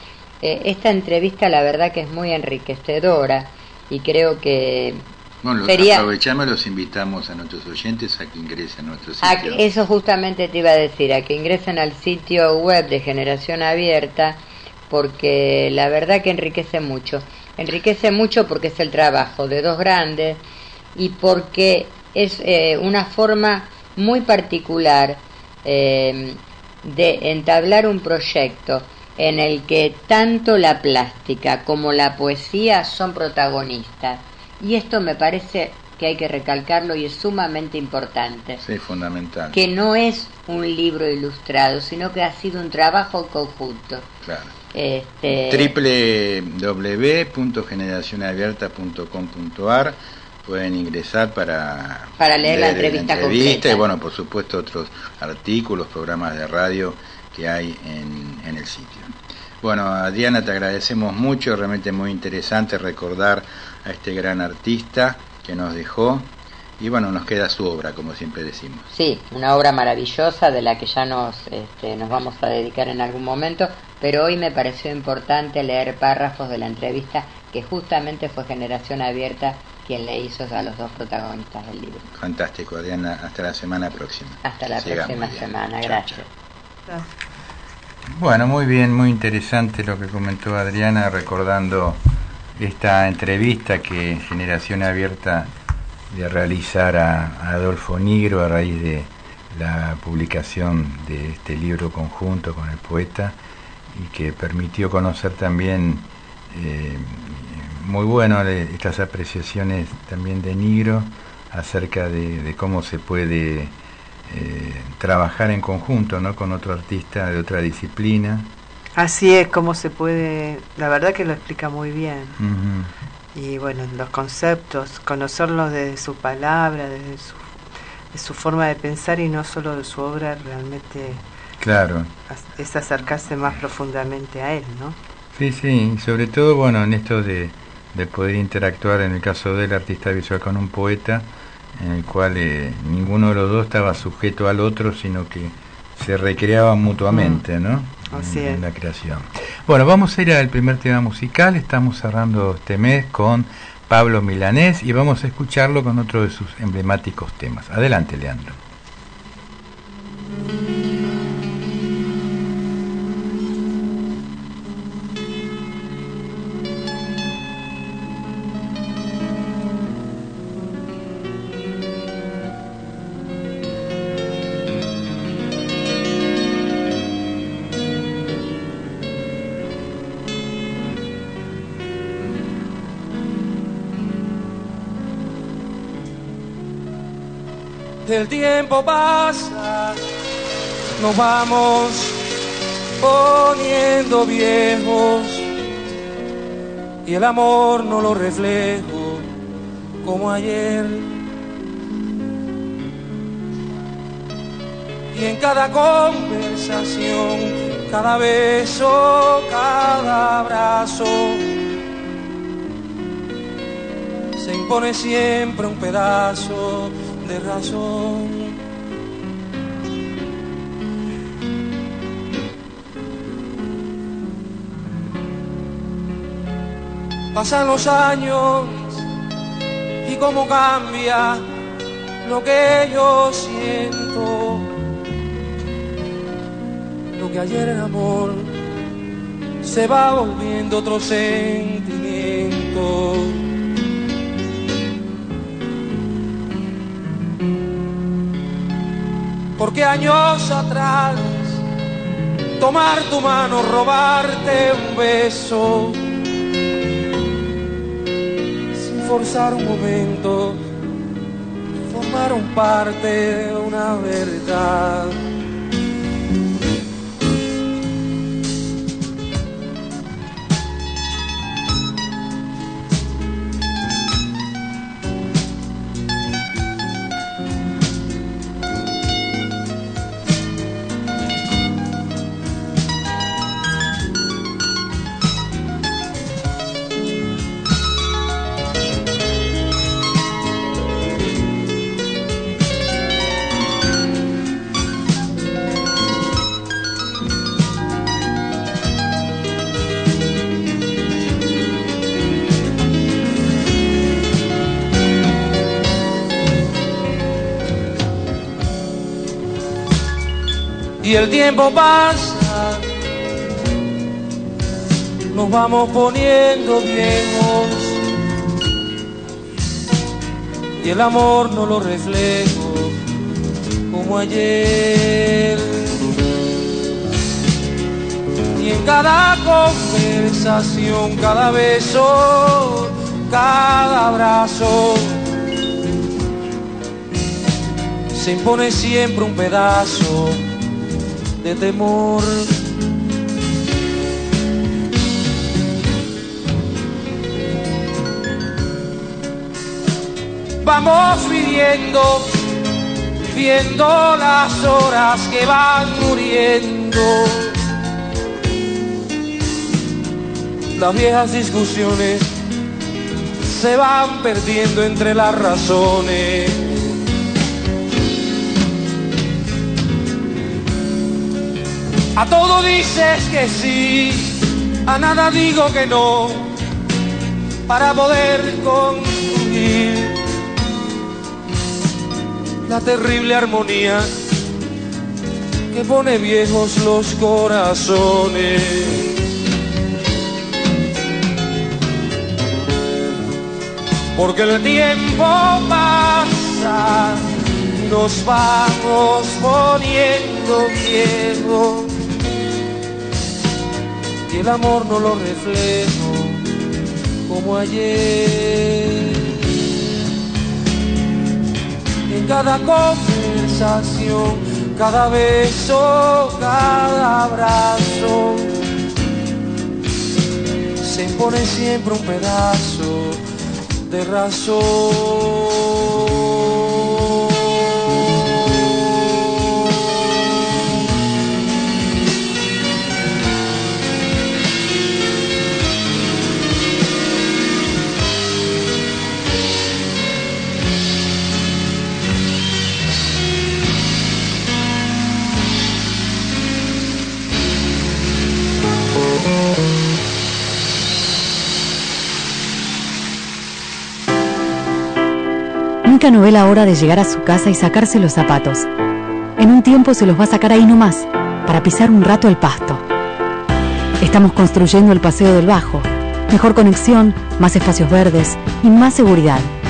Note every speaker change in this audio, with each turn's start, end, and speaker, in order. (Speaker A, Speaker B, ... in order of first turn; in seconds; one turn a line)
Speaker A: 0.4-5.1
Speaker B: 5.4-9.8
Speaker A: 5.7-6.1
Speaker A: 9.2-20.4
Speaker A: 21.0-38.6
Speaker B: 38.6-39.6
Speaker A: 39.5-44.1
Speaker B: 44.2-44.5
Speaker A: 44.7-45.8
Speaker B: 45.5-68.9
Speaker A: 52.2-53.9
Speaker A: 68.9-82.1
Speaker B: 82.2-86.2
Speaker A: 84.4-86.3
Speaker B: 88.2-92.0
Speaker B: 92.6-95.5
Speaker B: 96.1-103.4
Speaker B: 103.9-113.7
Speaker B: 114.3-118.5
Speaker C: 119.0-122.4
Speaker B: 122.4-122.9
Speaker C: 123.3-127.5
Speaker C: 128.1-131.2
Speaker B: 131.6-132.1
Speaker C: 132.3-135.0
Speaker B: 135.3-158.6
Speaker C: 147.1-147.4
Speaker C: 148.1-148.6
Speaker D: 188.0-190.0
Speaker D: 191.0-192.2
Speaker D: 193.0-195.5
Speaker D: 197.1-199.3
Speaker D: 200.0-201.1
Speaker D: 205.1-211.5
Speaker D: 214.4-218.6
Speaker D: 227.3-229.1
Speaker D: 230.0-231.4
Speaker D: 232.2-234.7
Speaker D: 237.2-238.5
Speaker D: 239.6-243.5
Speaker D: 249.6-251.6
Speaker D: 252.6-256.0
Speaker D: 258.7-260.6
Speaker D: 261.9-265.2
Speaker D: 311.0-312.9
Speaker D: 315.3-318.0
Speaker D: 320.8-323.0
Speaker D: 323.9-326.0
Speaker D: 328.6-335.2
Speaker D: 338.1-340.4
Speaker D: 341.4-342.5
Speaker D: 350.6-352.4
Speaker D: 353.3-357.6
Speaker D: 360.8-362.3
Speaker D: 363.4-366.9
Speaker D: 372.1-376.5
Speaker D: 377.7-380.2
Speaker D: 382.7-384.1
Speaker D: 385.7-389.2
Speaker D: 394.1-401.9
Speaker D: 404.3-406.4
Speaker D: 407.3-409.4
Speaker D: 412.1-418.6
Speaker D: 420.8-423.2
Speaker D: 423.9-425.7
Speaker E: 455.9-458.7
Speaker E: 459.4-462.9
Speaker E: 464.0-469.5